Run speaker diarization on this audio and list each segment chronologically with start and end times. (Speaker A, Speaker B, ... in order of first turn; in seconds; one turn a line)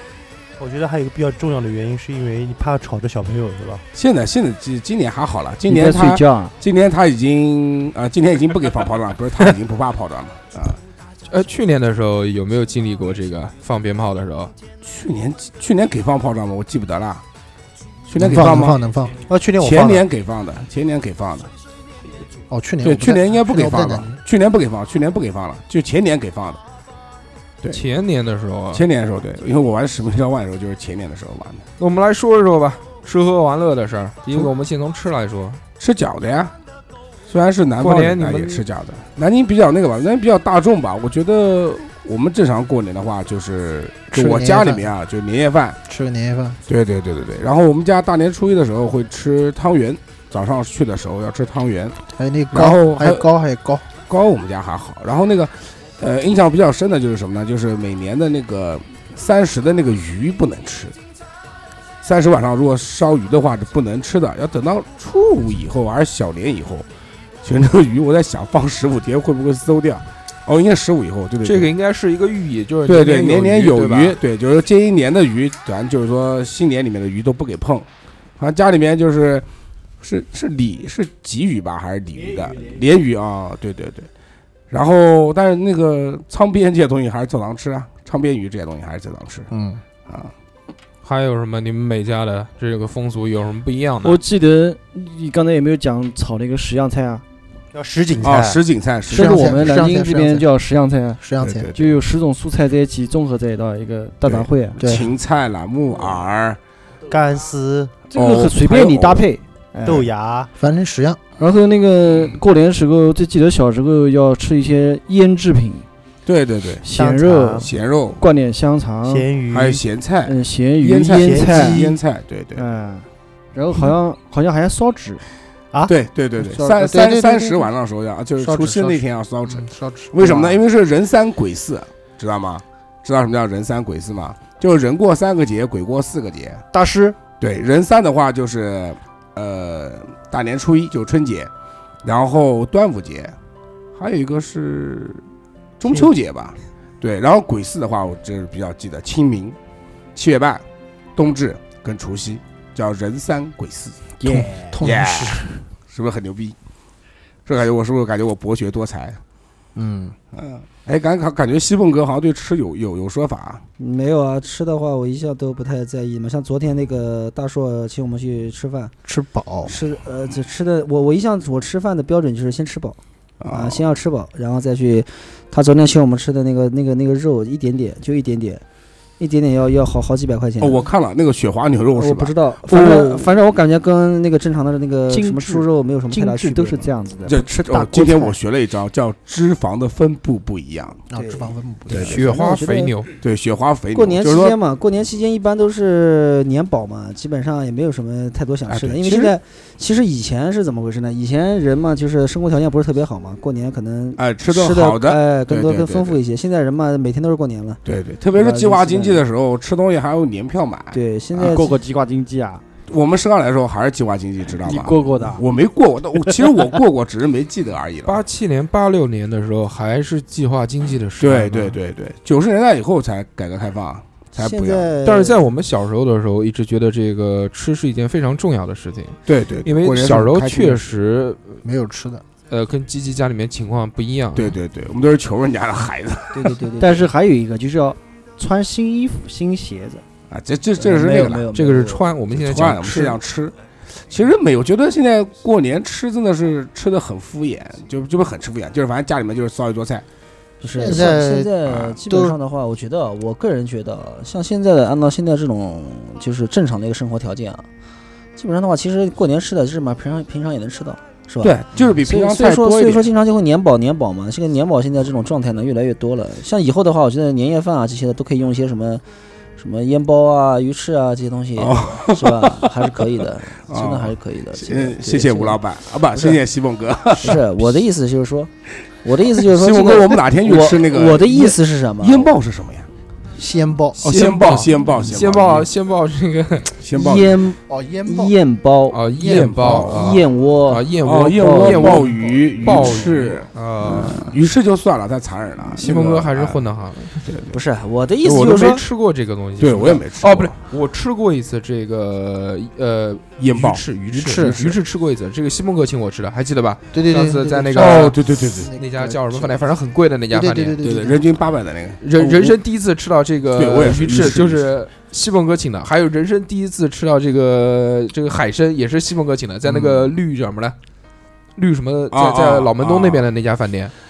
Speaker A: 0.6-3.8
Speaker B: 4.0-10.8
Speaker C: 5.7-6.5
Speaker D: 11.3-14.5
Speaker B: 14.8-17.2
Speaker B: 18.1-18.8
Speaker E: 18.2-19.2
Speaker A: 19.1-20.1
Speaker B: 19.6-21.5
Speaker E: 22.5-24.1
Speaker B: 22.8-26.6
Speaker D: 27.7-28.9
Speaker B: 28.7-31.6
Speaker D: 31.8-35.6
Speaker B: 35.8-36.5
Speaker B: 37.3-45.8
Speaker D: 37.8-38.6
Speaker E: 44.1-44.9
Speaker E: 45.9-46.6
Speaker B: 46.7-52.0
Speaker E: 52.1-53.9
Speaker B: 52.5-53.2
Speaker B: 54.0-61.0
Speaker B: 62.0-66.9
Speaker B: 67.4-71.7
Speaker D: 71.4-74.2
Speaker B: 72.9-77.9
Speaker B: 78.4-79.5
Speaker B: 80.0-84.1
Speaker B: 84.7-89.5
Speaker E: 89.5-89.8
Speaker B: 90.1-90.3
Speaker D: 91.0-94.2
Speaker C: 94.0-97.2
Speaker A: 97.7-98.6
Speaker B: 98.2-99.8
Speaker C: 99.1-104.8
Speaker E: 99.1-100.5
Speaker E: 101.2-101.7
Speaker B: 101.4-102.0
Speaker B: 104.3-106.6
Speaker E: 104.8-105.1
Speaker A: 107.1-108.1
Speaker B: 108.1-109.3
Speaker C: 108.1-110.1
Speaker A: 109.8-110.5
Speaker E: 110.5-111.2
Speaker C: 111.4-115.9
Speaker B: 116.3-116.9
Speaker C: 116.8-119.3
Speaker A: 116.9-117.7
Speaker B: 117.6-118.2
Speaker A: 119.1-119.8
Speaker B: 119.5-122.7
Speaker C: 120.2-121.9
Speaker A: 121.1-121.9
Speaker C: 122.5-125.2
Speaker B: 125.9-136.6
Speaker C: 126.6-126.9
Speaker E: 126.7-127.7
Speaker E: 128.4-130.5
Speaker C: 136.7-137.2
Speaker B: 137.4-141.5
Speaker B: 142.0-143.3
Speaker B: 143.9-145.2
Speaker B: 145.8-149.6
Speaker B: 150.2-150.6
Speaker B: 151.2-154.0
Speaker C: 154.2-154.9
Speaker E: 154.3-155.4
Speaker B: 154.8-156.6
Speaker B: 157.5-159.2
Speaker E: 159.8-160.2
Speaker B: 160.3-163.6
Speaker F: 163.8-168.9
Speaker E: 169.1-169.7
Speaker F: 169.7-173.0
Speaker B: 173.4-173.8
Speaker F: 173.5-178.6
Speaker F: 179.2-180.8
Speaker B: 180.6-182.3
Speaker F: 181.9-186.9
Speaker C: 182.7-183.3
Speaker C: 185.1-188.4
Speaker B: 187.3-191.0
Speaker E: 191.1-192.2
Speaker F: 191.1-193.0
Speaker D: 192.0-193.1
Speaker B: 193.2-194.6
Speaker F: 193.9-207.8
Speaker B: 198.7-199.4
Speaker B: 204.2-206.2
Speaker B: 207.8-211.0
Speaker F: 208.3-209.2
Speaker F: 210.9-211.8
Speaker C: 211.4-212.6
Speaker B: 212.9-218.2
Speaker C: 214.6-215.4
Speaker D: 218.1-221.8
Speaker B: 221.2-225.0
Speaker F: 224.4-225.4
Speaker D: 225.0-231.6
Speaker B: 229.3-230.8
Speaker E: 231.6-232.2
Speaker D: 232.5-234.6
Speaker B: 234.3-236.5
Speaker F: 236.3-237.1
Speaker C: 236.8-240.0
Speaker B: 240.3-241.5
Speaker F: 240.8-242.2
Speaker D: 241.5-243.2
Speaker B: 242.3-243.6
Speaker B: 244.1-250.1
Speaker F: 250.6-257.6
Speaker E: 250.8-252.4
Speaker B: 250.8-251.1
Speaker F: 258.4-269.0
Speaker B: 261.4-263.1
Speaker F: 269.6-275.6
Speaker B: 271.6-272.9
Speaker B: 273.7-277.4
Speaker F: 276.1-276.4
Speaker F: 277.1-278.5
Speaker F: 279.0-282.3
Speaker B: 279.4-282.9
Speaker E: 283.4-284.0
Speaker D: 284.0-286.8
Speaker B: 284.0-285.7
Speaker B: 286.8-287.4
Speaker F: 286.9-292.1
Speaker E: 287.7-288.3
Speaker D: 288.9-294.2
Speaker B: 289.2-290.2
Speaker B: 291.0-296.6
Speaker D: 295.8-297.2
Speaker B: 297.3-297.6
Speaker F: 297.5-298.8
Speaker B: 298.2-298.8
Speaker D: 298.4-310.8
Speaker B: 299.6-300.6
Speaker B: 303.4-304.8
Speaker E: 304.1-304.6
Speaker E: 306.9-309.7
Speaker B: 307.8-308.7
Speaker E: 310.3-311.2
Speaker B: 310.8-312.6
Speaker D: 312.0-320.8
Speaker B: 313.5-314.7
Speaker B: 319.7-320.1
Speaker D: 321.6-323.9
Speaker B: 322.1-323.3